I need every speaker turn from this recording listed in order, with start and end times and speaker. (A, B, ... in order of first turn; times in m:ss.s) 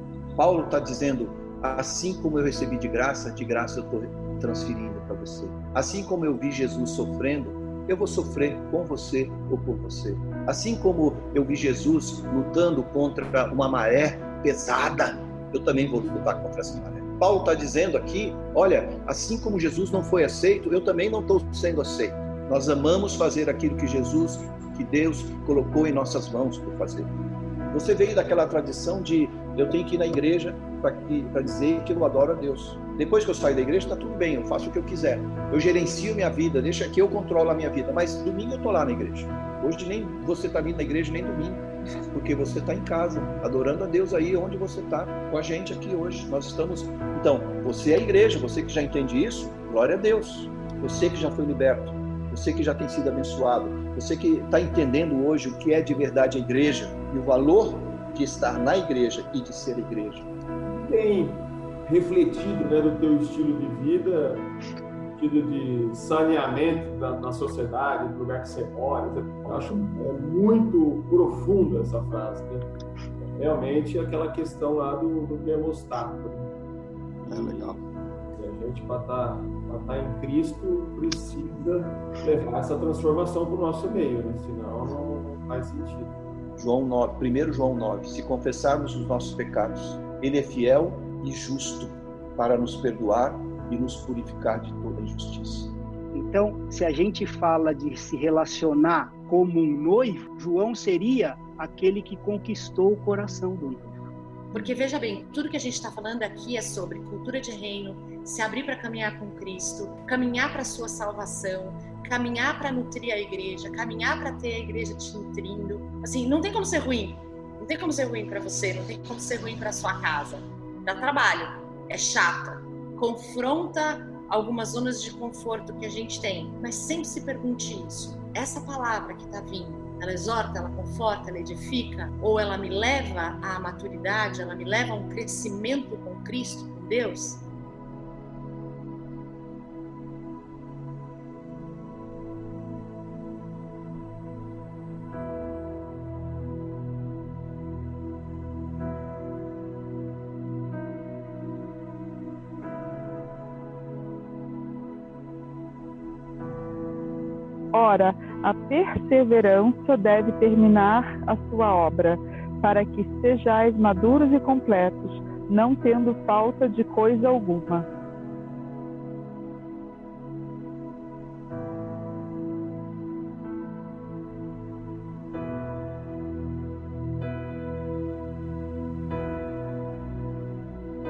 0:00.4-0:27.1 A
0:27.7-1:00.3 A
1:00.7-1:04.5 B
1:05.2-1:12.7 B
1:13.4-1:16.5 B
1:17.2-1:17.8 B
1:17.3-1:17.8 A
1:18.3-1:26.2 B
1:26.6-1:35.8 A
1:36.1-1:44.1 C
1:44.5-2:17.4 D
2:37.7-2:47.9 E